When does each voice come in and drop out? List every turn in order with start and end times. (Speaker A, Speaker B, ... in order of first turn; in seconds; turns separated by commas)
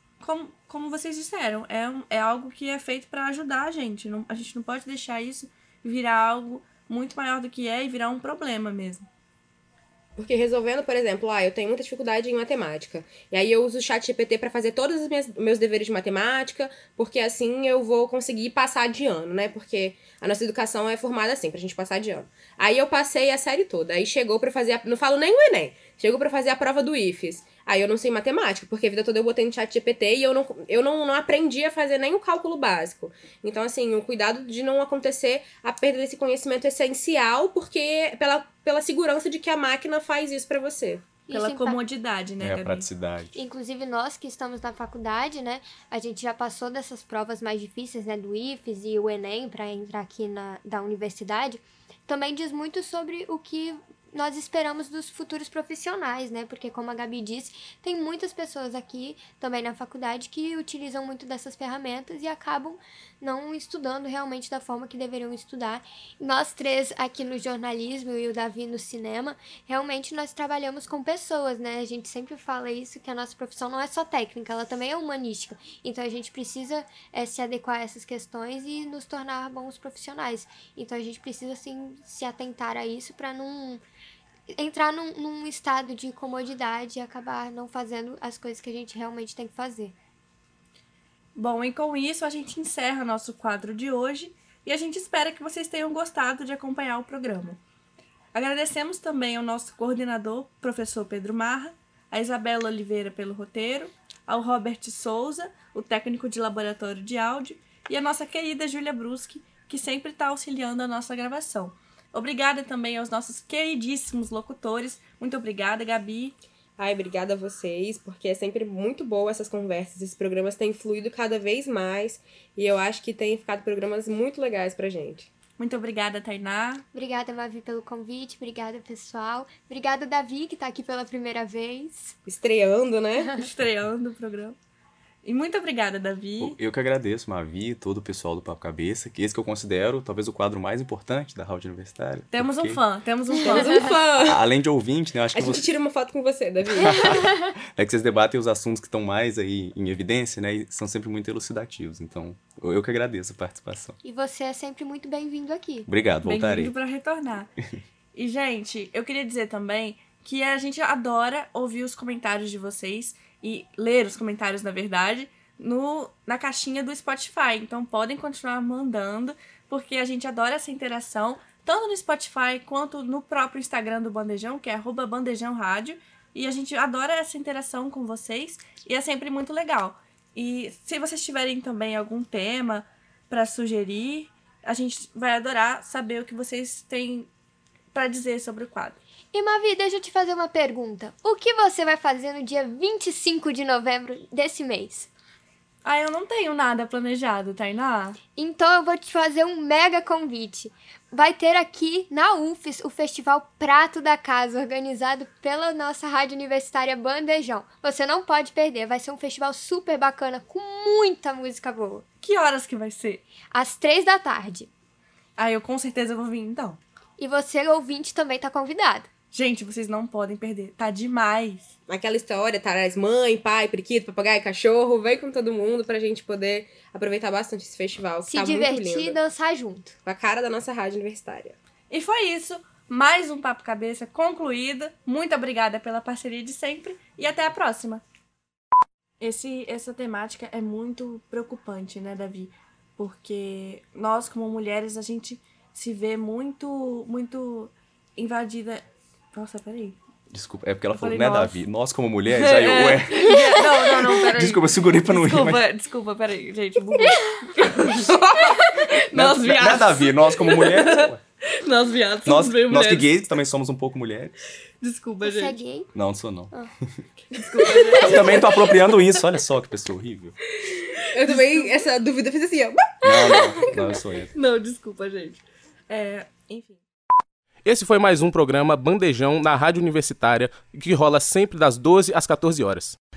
Speaker A: 0.2-9.1, Speaker B: 10.2-41.0, Speaker C: 41.3-41.8, Speaker A: 41.3-42.9, Speaker D: 42.4-43.4, Speaker C: 43.3-83.8, Speaker C: 84.5-89.9, Speaker A: 91.3-97.6, Speaker A: 98.3-116.3, Speaker B: 116.8-125.3, Speaker A: 125.6-126.8, Speaker C: 126.9-132.2, Speaker B: 132.2-133.3, Speaker A: 133.3-134.6, Speaker A: 135.2-136.6, Speaker D: 136.4-142.8, Speaker A: 142.3-143.9, Speaker B: 143.4-144.4, Speaker D: 144.2-145.7, Speaker B: 145.3-147.2, Speaker D: 146.9-154.0, Speaker C: 154.0-155.9, Speaker D: 155.8-156.7, Speaker A: 156.2-157.5, Speaker A: 158.1-187.3, Speaker A: 187.9-189.0, Speaker C: 189.3-195.1, Speaker A: 195.8-198.2, Speaker C: 198.4-212.0, Speaker A: 212.2-213.2, Speaker C: 213.5-214.7, Speaker A: 215.4-216.8, Speaker C: 217.2-219.1, Speaker A: 219.3-221.7, Speaker B: 221.9-229.2, Speaker C: 228.2-229.9, Speaker B: 230.0-231.6, Speaker A: 231.9-238.0, Speaker A: 239.2-250.0, Speaker D: 250.3-253.6, Speaker A: 250.9-251.6, Speaker A: 252.3-263.1, Speaker D: 254.2-255.6, Speaker D: 259.1-261.2, Speaker D: 262.2-264.4, Speaker A: 264.8-265.6, Speaker C: 265.2-265.9, Speaker D: 265.9-267.0, Speaker A: 267.3-269.2, Speaker D: 268.0-270.4, Speaker A: 270.6-271.5, Speaker B: 271.1-273.6, Speaker D: 273.0-274.3, Speaker A: 273.2-276.8, Speaker E: 277.6-283.0